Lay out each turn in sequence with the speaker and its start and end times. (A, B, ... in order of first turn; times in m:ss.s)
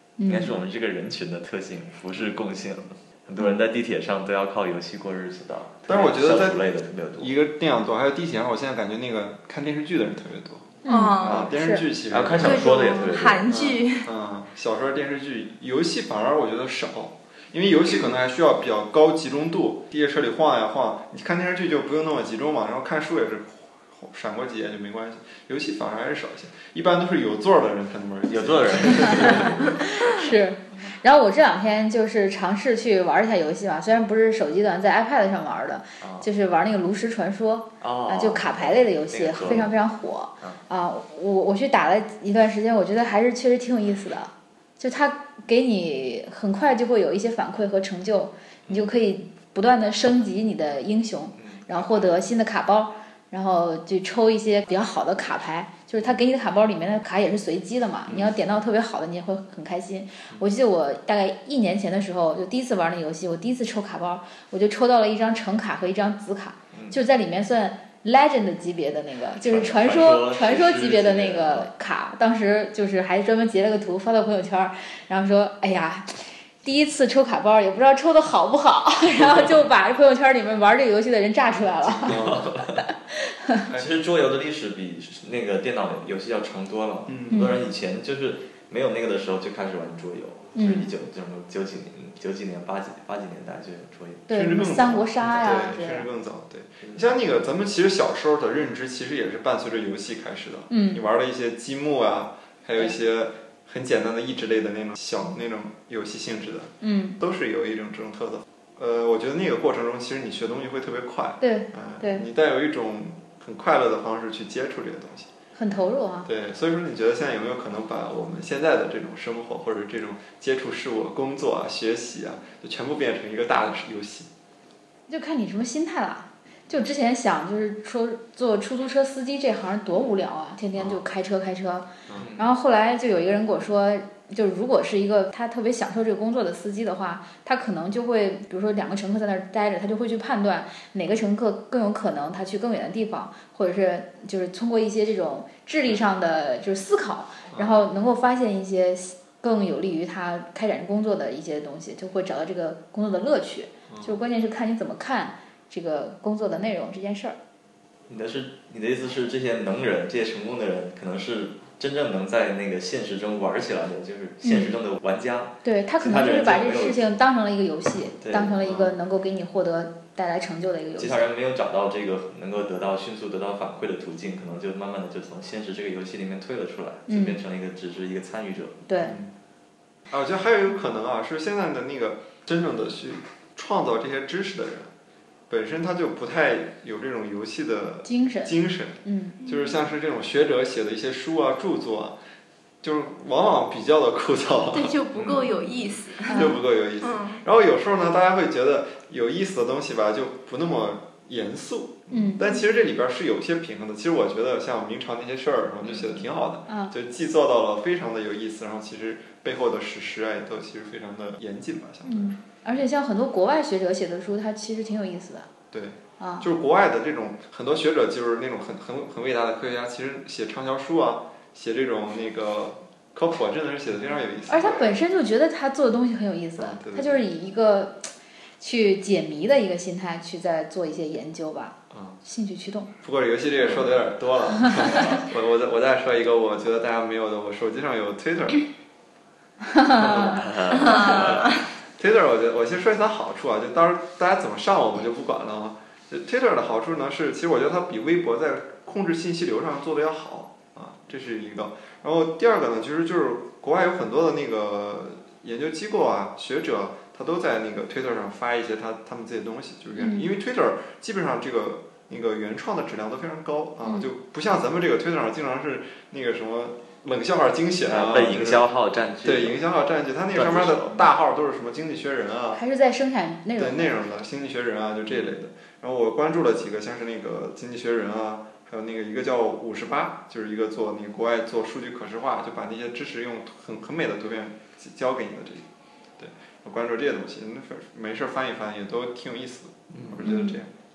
0:00.2-0:00.6 A
0:00.3-0:07.3 B
0:05.9-0:06.6 C
0:07.2-0:12.8 C
0:10.8-0:11.9 A
0:10.9-0:11.5 D
0:12.1-0:13.5 B
0:12.4-0:14.1 D
0:13.5-0:29.8 C
0:28.2-0:29.8 B
0:29.0-1:22.2 A
0:36.0-0:36.2 B
0:37.8-0:39.7 B
0:51.4-0:51.9 B
0:58.1-0:58.3 C
1:06.7-1:07.0 B
1:09.4-1:11.7 B
1:21.8-1:22.8 B
1:22.0-1:22.6 C
1:23.1-1:23.6 A
1:23.7-1:24.0 C
1:23.7-1:34.3 B
1:27.1-1:27.5 C
1:27.3-1:27.6 A
1:30.6-1:30.9 A
1:34.3-1:36.1 A
1:34.3-1:55.3 C
1:40.7-1:41.0 A
1:46.8-1:47.2 A
1:51.4-1:52.2 A
1:55.6-1:56.3 A
1:56.2-2:04.3 C
2:05.1-2:37.4 A
2:10.8-2:11.0 C
2:12.2-2:12.5 B
2:27.5-2:27.8 C
2:33.9-2:34.2 C
2:38.1-2:47.1 B
2:44.4-2:44.7 A
2:45.6-2:51.2 A
2:48.2-2:48.6 B
2:48.6-2:48.9 C
2:51.0-2:58.8 B
2:57.1-2:57.4 A
2:58.9-2:59.2 A
2:59.0-2:59.3 C
3:00.1-3:04.9 C
3:05.5-3:12.2 C
3:08.0-3:09.4 A
3:09.4-3:09.8 D
3:12.8-3:15.0 C
3:14.7-3:17.4 D
3:15.2-3:15.6 B
3:16.2-3:32.3 C
3:16.3-3:16.6 A
3:22.1-3:22.5 A
3:25.8-3:26.2 B
3:32.1-3:35.5 A
3:35.7-3:44.9 C
3:36.2-3:36.5 A
3:44.5-3:52.9 A
3:46.6-3:47.2 C
3:51.9-3:52.2 C
3:53.0-3:58.7 C
3:54.6-3:55.0 A
3:59.7-4:00.4 A
4:00.0-4:01.6 B
4:00.7-4:01.6 D
4:01.0-4:28.6 C
4:20.0-4:20.3 A
4:27.9-4:29.6 B
4:29.2-4:32.6 C
4:30.3-4:31.1 B
4:32.5-4:33.9 A
4:33.6-4:45.7 C
4:46.2-4:50.7 C
4:50.2-4:50.6 A